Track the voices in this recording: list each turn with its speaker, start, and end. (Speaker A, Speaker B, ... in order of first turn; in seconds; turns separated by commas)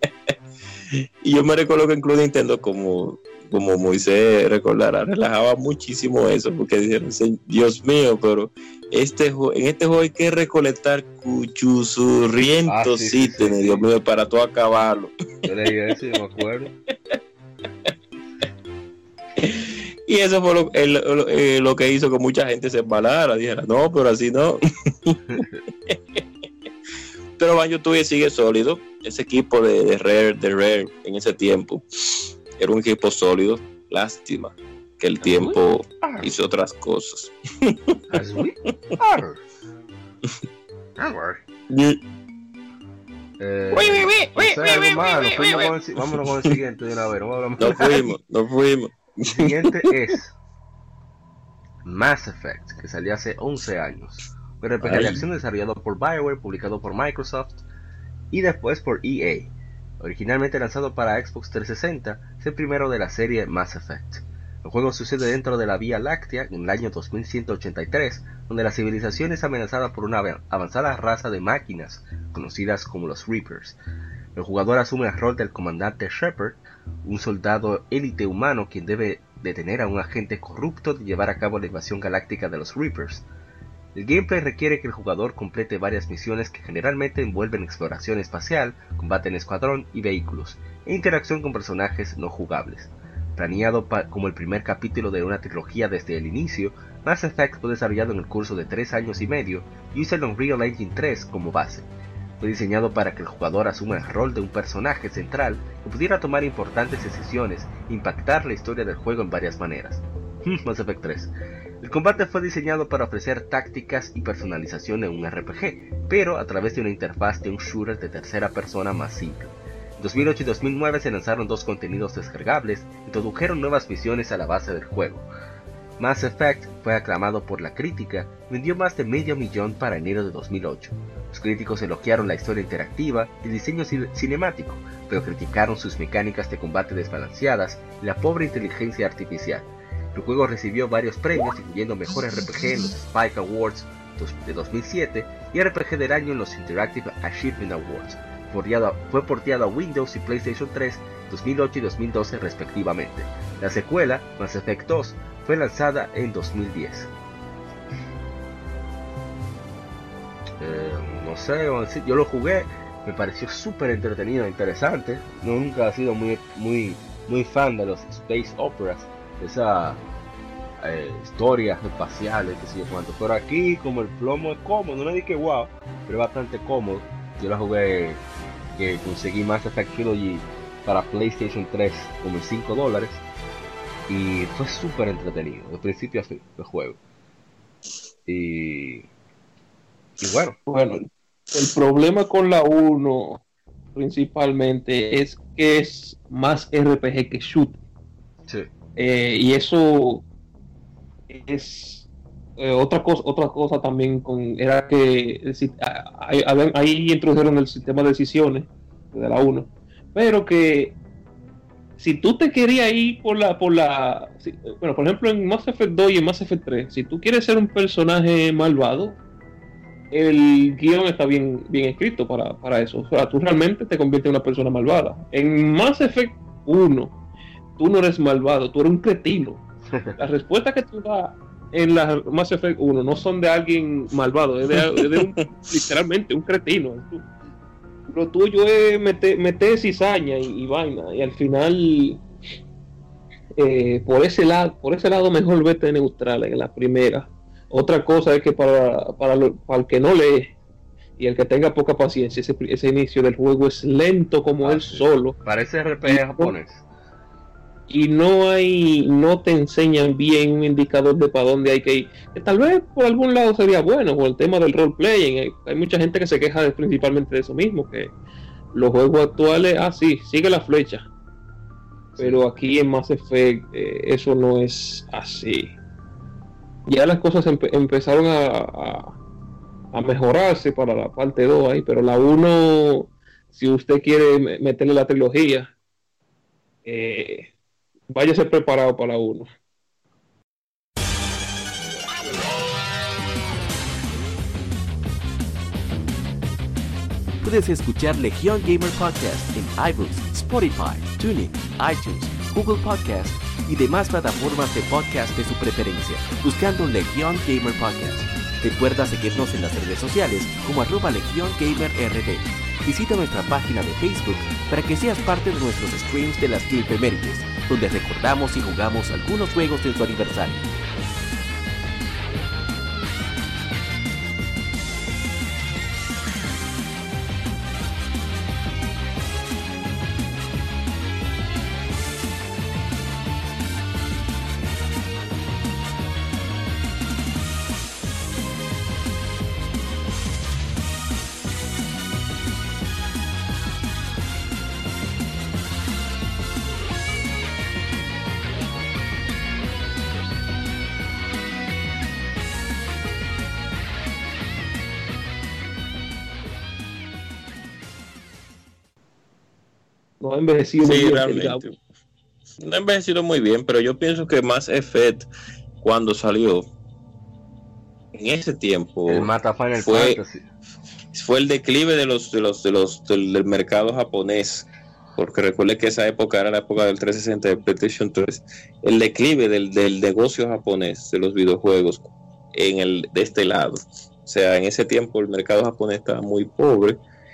Speaker A: 0.9-15.1, Speaker B: 12.7-13.9, Speaker B: 15.5-16.7, Speaker A: 16.9-17.2, Speaker A: 19.4-25.2, Speaker B: 25.3-25.6, Speaker A: 25.9-26.2, Speaker A: 27.4-38.4, Speaker B: 35.2-36.3, Speaker B: 38.1-39.4, Speaker B: 41.0-41.4, Speaker A: 41.7-42.0, Speaker B: 43.4-48.1, Speaker A: 43.7-45.7, Speaker A: 47.6-49.7, Speaker B: 49.3-50.3, Speaker B: 51.9-57.6, Speaker A: 54.8-55.2, Speaker B: 58.3-73.8, Speaker B: 74.3-83.2, Speaker B: 84.0-101.9, Speaker B: 102.4-125.2, Speaker B: 126.0-157.1, Speaker B: 160.6-170.0, Speaker B: 170.8-178.2, Speaker B: 178.8-183.2, Speaker B: 184.1-187.0, Speaker B: 188.3-189.1, Speaker B: 190.2-190.6, Speaker C: 190.7-193.4, Speaker C: 193.9-197.8, Speaker C: 199.0-200.2, Speaker C: 201.3-202.1, Speaker C: 202.6-211.0, Speaker C: 212.0-219.2, Speaker C: 220.1-227.1, Speaker C: 227.8-229.6, Speaker B: 229.9-230.2, Speaker C: 230.2-237.3, Speaker A: 234.7-235.7, Speaker C: 238.1-242.2, Speaker C: 243.6-250.6, Speaker C: 251.2-255.4, Speaker B: 254.6-256.8, Speaker C: 256.1-256.5, Speaker C: 257.9-268.1, Speaker C: 268.7-271.1, Speaker B: 272.2-272.4, Speaker C: 272.2-275.8, Speaker C: 276.9-279.1, Speaker C: 279.9-285.7, Speaker C: 286.9-287.5, Speaker C: 288.1-289.5, Speaker D: 297.4-320.6, Speaker C: 360.2-361.6, Speaker A: 360.8-361.8, Speaker A: 362.6-365.3, Speaker A: 365.8-366.7, Speaker A: 368.1-370.2, Speaker B: 369.1-370.5, Speaker A: 371.1-387.0